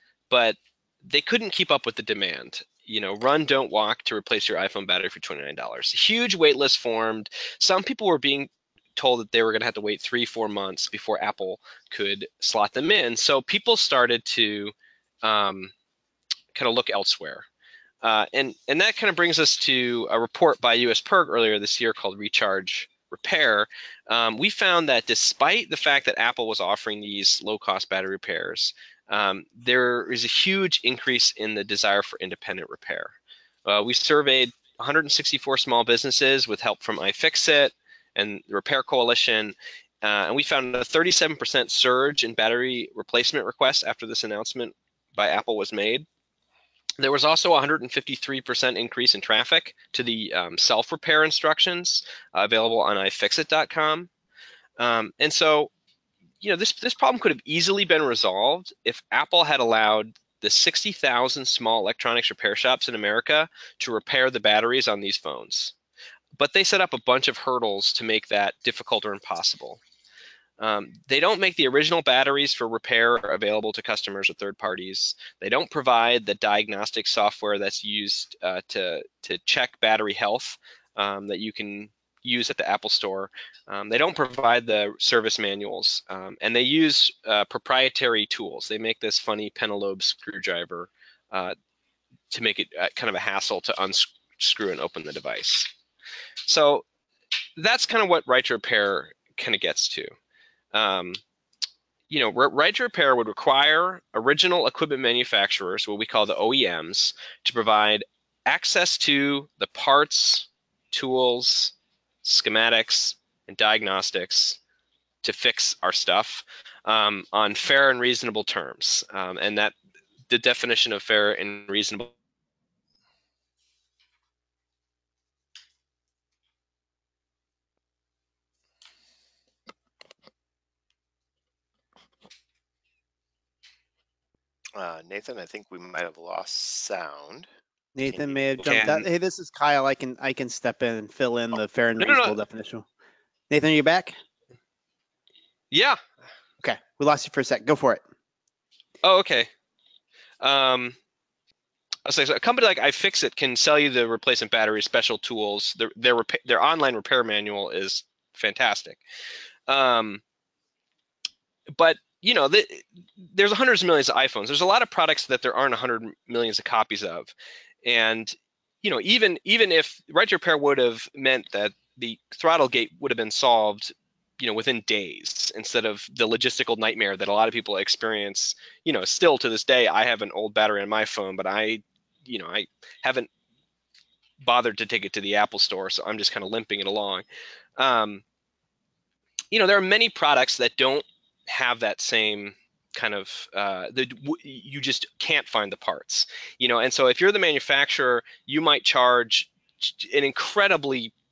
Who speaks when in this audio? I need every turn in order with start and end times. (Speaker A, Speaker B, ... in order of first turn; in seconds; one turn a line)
Speaker A: 0.3-15.7
Speaker A: 16.5-17.4
Speaker A: 18.0-33.1
Speaker A: 33.6-46.0
Speaker A: 47.0-54.1
Speaker A: 54.8-55.7
Speaker A: 56.4-65.7
Speaker A: 66.4-69.8
Speaker A: 70.6-91.5
Speaker A: 92.3-95.7
Speaker A: 96.4-96.8
Speaker A: 97.6-100.1
Speaker A: 100.7-101.2
Speaker A: 102.1-111.7
Speaker A: 112.2-114.6
Speaker A: 115.2-119.7
Speaker A: 120.3-122.1
Speaker B: 134.8-137.5
Speaker C: 137.9-142.8
Speaker B: 138.1-138.4
Speaker A: 138.6-139.0
Speaker A: 142.0-142.3
Speaker C: 143.5-144.2
Speaker A: 145.7-146.0
Speaker C: 146.6-148.0
Speaker A: 149.0-149.5
Speaker A: 150.4-150.9
Speaker A: 152.0-159.0
Speaker A: 159.7-160.2
Speaker A: 161.7-167.3
Speaker A: 167.8-183.3
Speaker A: 184.4-187.2
Speaker A: 187.8-188.2
Speaker A: 189.5-201.1